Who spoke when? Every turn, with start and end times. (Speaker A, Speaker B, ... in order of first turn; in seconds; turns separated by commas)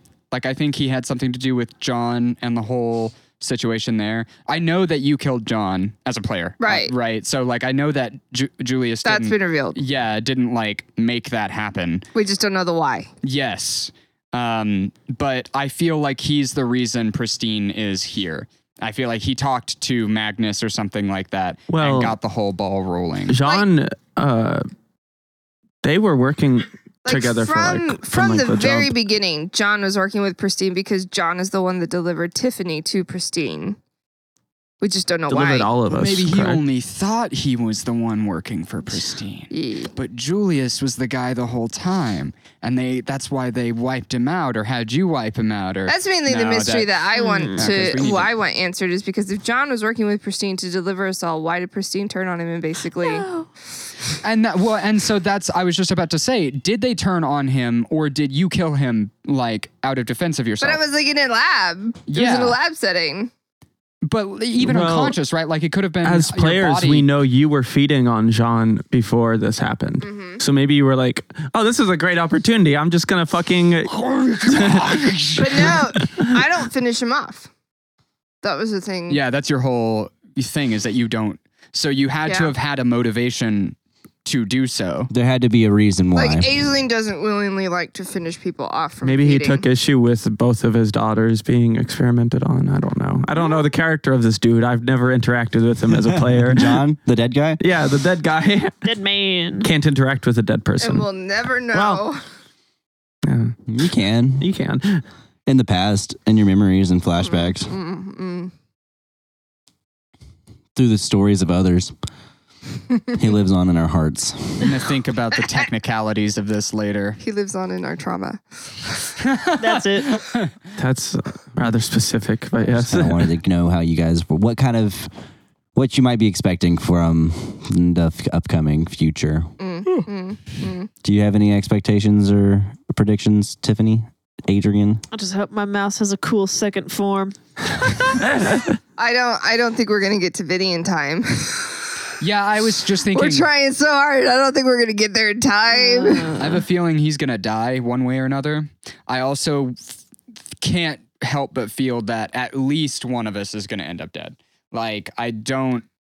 Speaker A: 0.3-12.1, Speaker B: 6.6-6.9, Speaker B: 9.0-9.8, Speaker B: 12.1-13.1, Speaker A: 13.2-23.4, Speaker C: 21.7-22.1, Speaker C: 23.3-24.6, Speaker C: 25.8-28.9, Speaker B: 27.1-33.8, Speaker B: 34.8-35.7, Speaker C: 35.3-36.6, Speaker A: 35.9-48.3, Speaker B: 39.5-39.9, Speaker B: 45.9-53.3, Speaker D: 47.1-47.7, Speaker D: 53.0-53.5, Speaker A: 54.2-60.8, Speaker B: 60.6-63.3, Speaker A: 62.1-62.5, Speaker A: 64.0-67.1, Speaker C: 64.6-65.2, Speaker C: 66.0-76.3, Speaker B: 70.0-70.4, Speaker A: 73.9-75.5, Speaker B: 75.3-77.5, Speaker B: 78.4-79.2, Speaker A: 79.1-85.1, Speaker B: 82.2-82.5, Speaker E: 85.1-86.7, Speaker B: 86.1-89.6, Speaker C: 89.0-96.8, Speaker E: 96.1-97.6, Speaker C: 97.6-98.8, Speaker D: 98.8-99.7, Speaker C: 99.6-101.0, Speaker B: 100.8-102.2, Speaker C: 101.7-102.0, Speaker C: 103.2-103.5, Speaker E: 103.7-104.5, Speaker C: 104.4-105.0, Speaker E: 105.5-107.7, Speaker B: 107.2-108.5, Speaker E: 110.7-111.9, Speaker E: 113.2-114.8, Speaker A: 114.6-117.2, Speaker B: 117.2-118.4, Speaker A: 119.2-120.5, Speaker D: 119.6-120.1, Speaker C: 120.8-123.3, Speaker E: 122.7-125.1, Speaker E: 125.7-129.5, Speaker B: 129.6-130.9, Speaker E: 131.0-135.0, Speaker D: 135.1-138.2, Speaker C: 138.2-138.8, Speaker B: 139.0-141.9, Speaker A: 142.2-143.5, Speaker B: 143.1-146.5, Speaker D: 145.7-146.5, Speaker A: 146.4-149.9, Speaker A: 150.6-155.8